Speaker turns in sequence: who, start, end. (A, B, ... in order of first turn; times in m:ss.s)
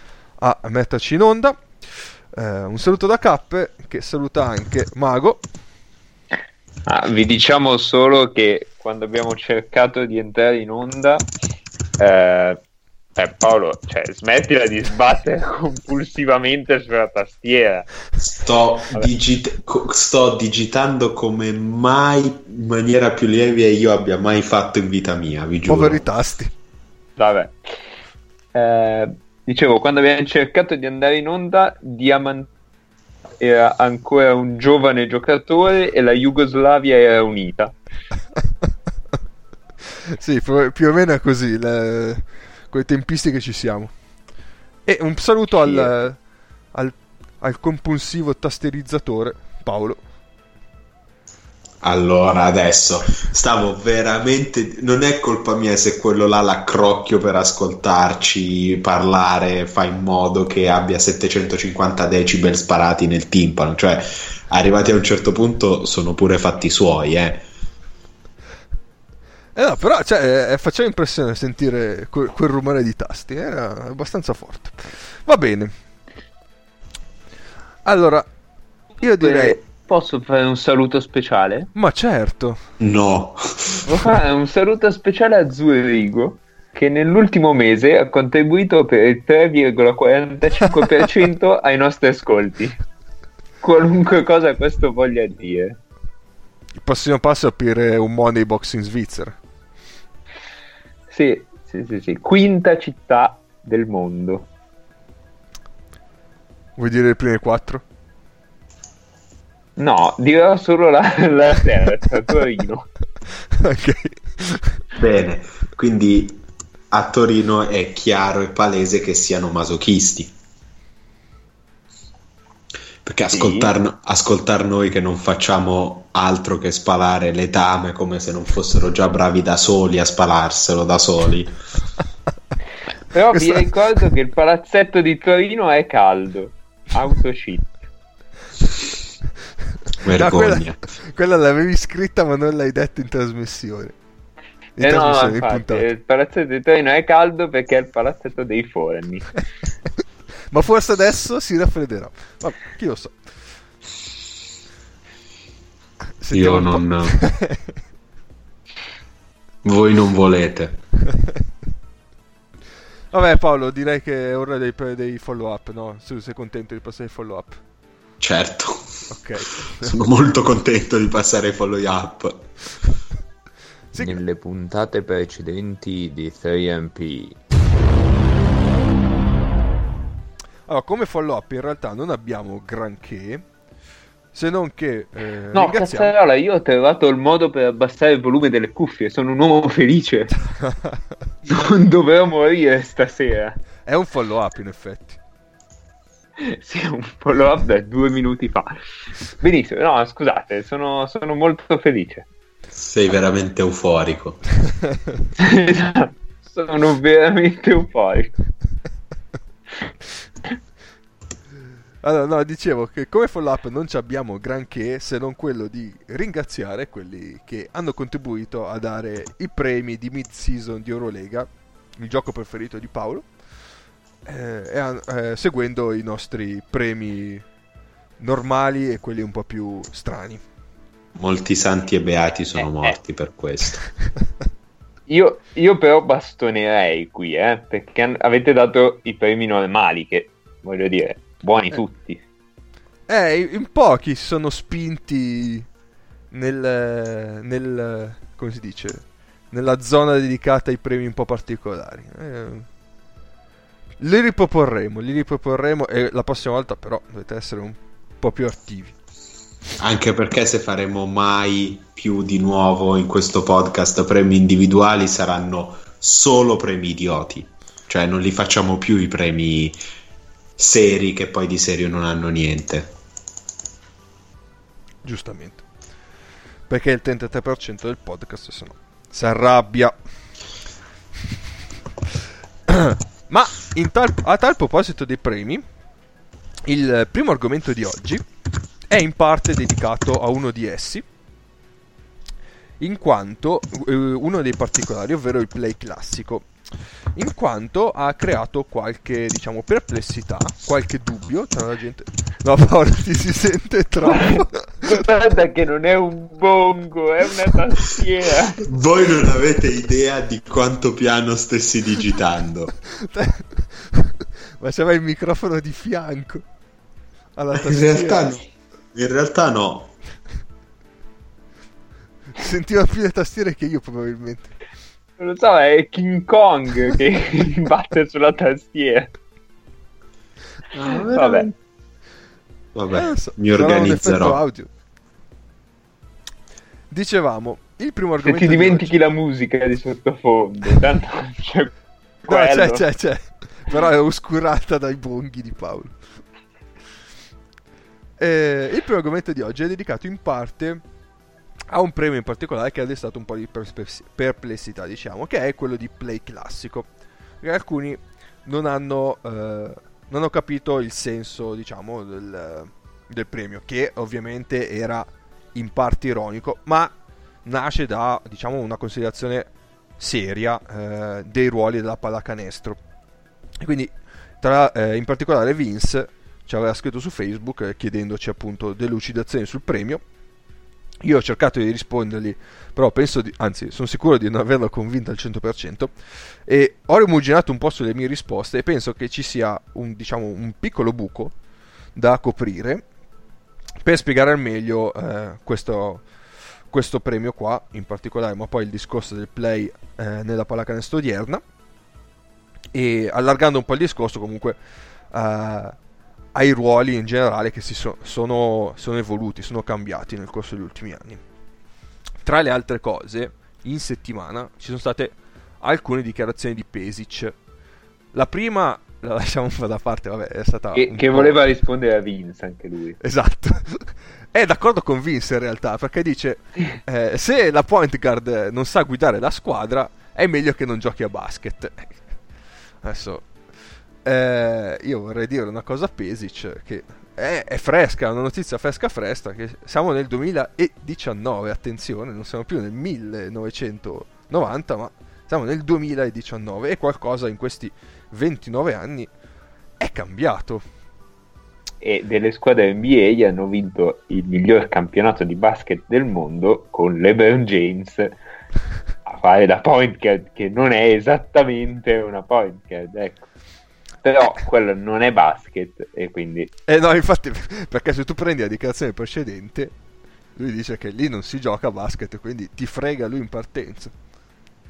0:00.4-0:05.4 A
0:06.9-0:11.2 B
0:12.0-0:12.6 B
0:13.2-0:17.9 B
0:18.2-0:26.0 C
0:25.7-0:26.5 A
0:27.2-0:27.8 B
0:28.5-0:32.5 B
0:33.4-0:37.8 B
0:40.1-0:43.9 A
0:44.8-0:46.2 A
0:45.6-0:45.9 B
0:46.7-0:50.0 A
0:51.8-1:07.4 C
1:09.5-1:15.7 A
1:17.8-1:18.2 A
1:19.0-1:19.6 A
1:19.2-1:21.7 B
1:21.7-1:22.6 A
1:22.8-1:23.8 C
1:23.8-1:32.8 B
1:33.6-1:35.8 B
1:36.8-1:39.4 A
1:41.1-1:44.5 B
1:46.8-1:47.8 A
1:49.8-1:52.9 B
1:53.5-1:54.8 A
1:54.9-2:00.3 C
2:03.0-2:11.6 C
2:03.3-2:03.7 B
2:13.1-2:17.7 B
2:13.3-2:13.7 A
2:20.0-2:23.9 A
2:20.0-2:20.8 C
2:24.8-2:25.8 A
2:24.8-2:29.3 B
2:30.5-2:33.2 A
2:36.2-2:37.8 A
2:36.3-2:37.2 C
2:39.6-2:40.8 C
2:43.1-2:47.6 A
2:48.2-2:48.9 C
2:49.1-2:50.0 A
2:49.8-2:52.5 C
2:53.9-2:54.2 A
2:54.0-2:57.4 B
3:00.7-3:03.4 A
3:04.3-3:06.1 A
3:05.5-3:10.4 B
3:10.4-3:11.0 A
3:11.5-3:13.6 B
3:13.8-3:15.2 A
3:16.4-3:18.7 B
3:19.4-3:22.2 B
3:22.8-3:24.4 C
3:25.4-3:28.3 B
3:32.0-3:43.3 A
3:44.2-3:47.4 A
3:48.2-3:50.4 A
3:51.2-3:53.8 C
3:52.6-3:53.0 B
3:55.1-4:02.2 B
4:03.1-4:05.7 A
4:06.3-4:12.7 A
4:14.0-4:18.9 A
4:19.8-4:29.8 C
4:30.6-4:32.9 C
4:35.0-4:35.6 A
4:36.7-4:39.9 A
4:42.7-4:45.6 A
4:46.6-4:48.2 A
4:48.9-4:51.0 A
4:52.8-4:56.5 A
4:57.1-5:05.0 A
5:04.1-5:08.6 B
5:08.6-5:12.7 C
5:12.9-5:16.4 A
5:17.4-5:18.4 A
5:17.5-5:19.9 C
5:22.4-5:24.5 A
5:25.2-5:29.1 B
5:30.7-5:31.5 C
5:31.1-5:31.5 B
5:32.7-5:34.4 C
5:33.0-5:34.7 A
5:36.9-5:38.9 A
5:38.2-5:41.7 B
5:42.2-5:42.8 B
5:42.3-5:46.0 A
5:48.2-5:50.8 A
5:51.7-5:56.9 A
5:57.4-6:06.9 A
6:07.4-6:12.8 A
6:13.6-6:20.0 A
6:21.0-6:25.9 A
6:26.4-6:31.3 A
6:32.0-6:32.8 A
6:33.8-6:36.0 A
6:36.7-6:41.4 A
6:42.7-6:44.6 A
6:45.1-6:45.8 A
6:46.3-6:51.2 A
6:52.2-6:57.3 A
6:58.1-7:01.4 A
7:00.7-7:03.0 B
7:03.0-7:12.0 A
7:12.8-7:13.3 A
7:14.0-7:29.1 A
7:29.8-7:30.6 A
7:31.8-7:38.2 B
7:39.0-7:43.3 B
7:44.0-7:46.5 B
7:46.7-7:49.7 A
7:50.4-7:53.9 A